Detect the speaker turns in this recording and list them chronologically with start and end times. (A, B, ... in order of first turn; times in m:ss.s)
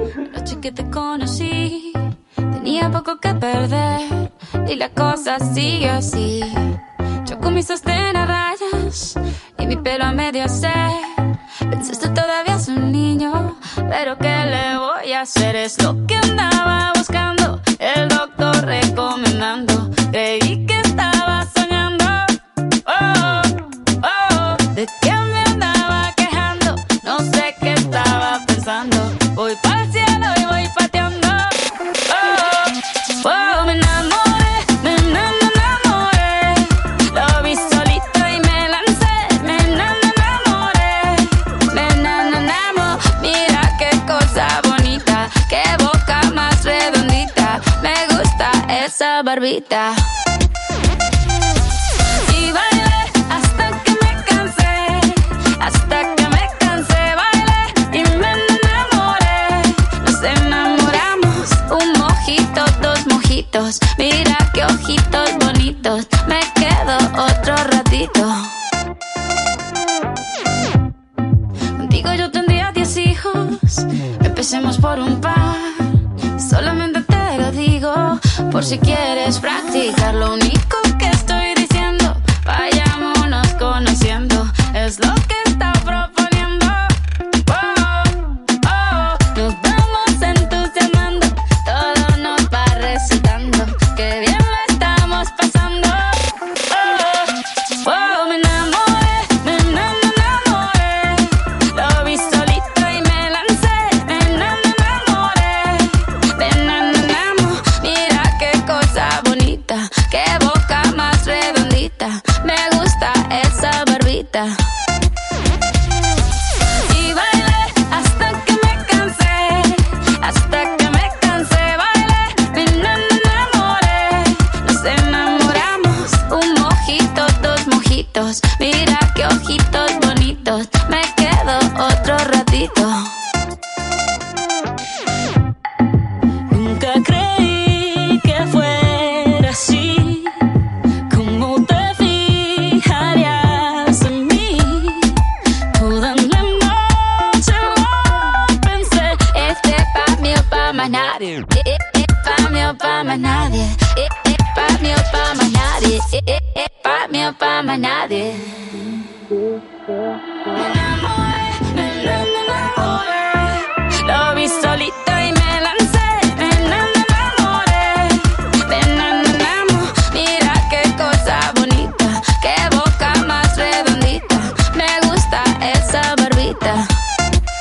0:00.2-0:50.1 A
0:51.9-1:08.5 A
1:11.8-1:54.6 A
1:56.8-2:13.2 A
2:16.5-2:20.5 A
2:21.1-2:38.8 A
2:40.6-2:56.9 A